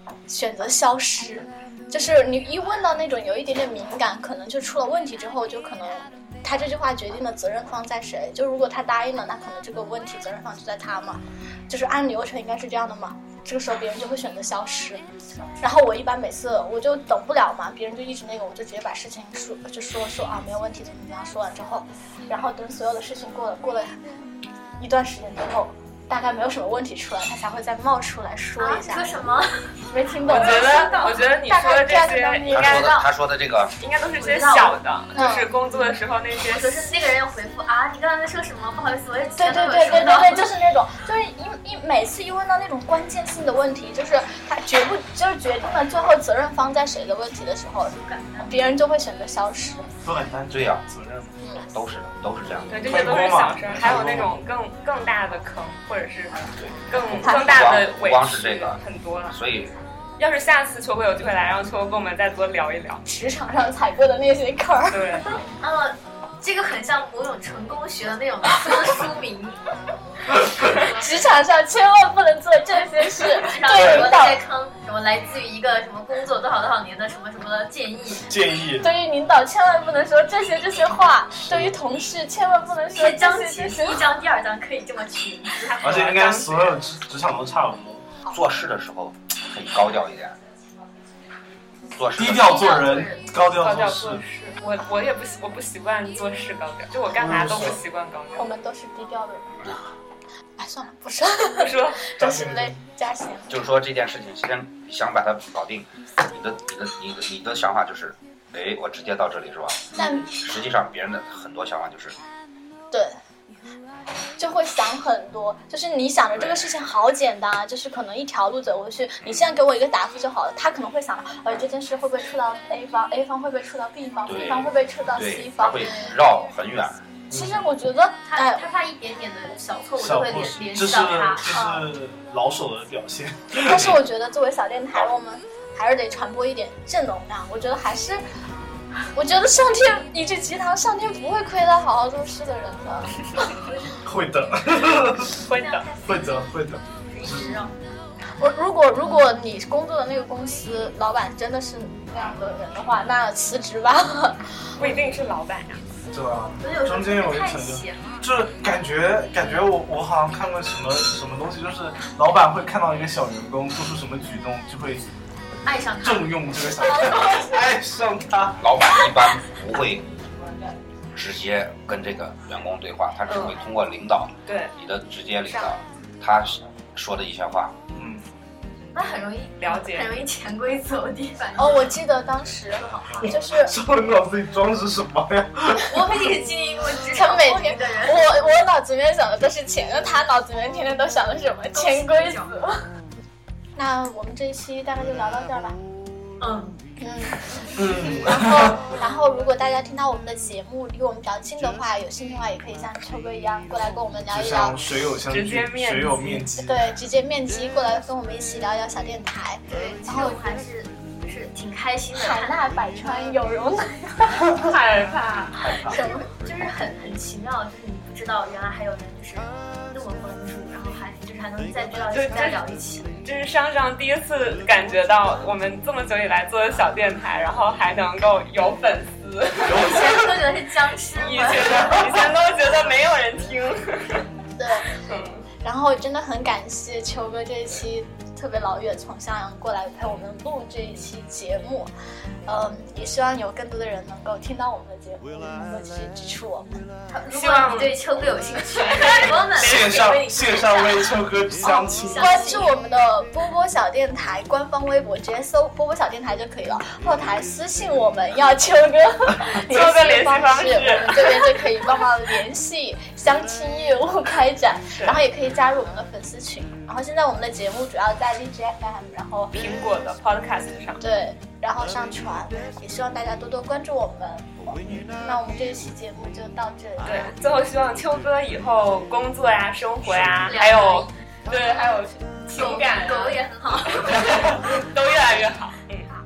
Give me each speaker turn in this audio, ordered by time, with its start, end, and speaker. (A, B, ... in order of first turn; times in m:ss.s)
0:00.3-0:15.0 A
0:15.6-0:24.0 A
0:24.8-0:29.2 A
0:28.6-0:31.4 B
0:29.9-0:32.8 A
0:30.3-0:32.9 C
0:32.5-0:33.7 D
0:32.7-0:33.1 B
0:33.8-0:36.9 C
0:34.2-0:34.8 B
0:35.1-0:35.5 A
0:36.4-0:40.6 B
0:39.4-0:49.9 A
0:47.9-0:48.7 B
0:50.0-0:51.4 E
0:50.5-0:50.8 D
0:51.7-0:53.0 D
0:52.7-0:59.4 C
0:52.8-0:54.3 E
0:56.6-0:59.7 D
0:57.2-0:57.7 A
1:00.2-1:03.0 C
1:03.0-1:05.4 A
1:04.9-1:05.3 C
1:05.6-1:09.6 B
1:10.6-1:11.3 B
1:10.9-1:14.4 A
1:13.2-1:18.3 B
1:13.8-1:14.0 E
1:18.1-1:18.9 E
1:18.8-1:24.1 A
1:21.3-1:21.8 E
1:22.9-1:25.8 B
1:25.6-1:26.8 C
1:25.8-1:28.1 E
1:28.3-1:30.4 D
1:31.9-1:32.5 D
1:32.1-1:34.2 E
1:32.3-1:33.3 B
1:33.5-1:38.5 C
1:37.1-1:37.8 E
1:38.4-1:39.6 A
1:40.6-1:43.7 A
1:41.5-1:42.0 C
1:42.2-1:42.8 E
1:43.5-1:52.2 D
1:50.0-1:50.3 A
1:52.9-1:53.2 A
1:54.4-2:06.1 A
2:04.2-2:07.0 D
2:07.3-2:07.6 E
2:07.3-2:08.6 A
2:08.2-2:11.7 B
2:10.0-2:14.0 E
2:11.5-2:11.8 A
2:13.6-2:18.2 A
2:19.1-2:23.5 A
2:24.0-2:25.4 E
2:25.5-2:25.9 C
2:25.5-2:26.2 B
2:26.0-2:27.6 E
2:27.1-2:27.7 B
2:28.4-2:34.8 A
2:34.8-2:35.8 C
2:36.1-2:45.0 E
2:36.6-2:38.2 B
2:45.6-2:47.6 B
2:46.0-2:48.7 E
2:48.6-2:50.1 D
2:51.1-2:57.8 D
2:53.3-2:53.6 C
2:54.4-2:54.7 C
2:55.5-2:55.8 A
2:57.9-2:58.2 E
2:58.9-3:02.0 B
2:59.6-3:00.2 C
3:01.6-3:03.8 A
3:02.7-3:03.4 B
3:03.1-3:06.4 E
3:05.8-3:08.4 B
3:07.1-3:12.8 A
3:11.7-3:12.6 B
3:13.8-3:15.8 A
3:16.4-3:16.8 B
3:17.0-3:24.8 A
3:17.8-3:18.9 E
3:24.3-3:27.0 E
3:25.3-3:26.4 C
3:26.6-3:30.5 A
3:29.7-3:32.7 B
3:32.2-3:34.7 A
3:34.5-3:35.6 C
3:34.9-3:43.1 B
3:35.6-3:36.0 E
3:35.8-3:36.3 A
3:42.1-3:42.6 C
3:43.2-3:49.8 C
3:49.6-3:52.3 B
3:49.7-3:50.3 E
3:51.2-3:54.2 C
3:54.6-3:54.9 A
3:54.9-3:55.4 C
3:55.6-4:01.9 A
4:02.4-4:06.8 A
4:07.1-4:12.8 B
4:07.3-4:10.2 C
4:09.6-4:12.4 E
4:12.1-4:29.5 A
4:19.5-4:21.6 C
4:29.5-4:31.0 C
4:31.0-4:37.3 A
4:37.0-4:43.4 C
4:40.3-4:41.1 B
4:42.5-4:44.6 B
4:44.0-4:46.1 C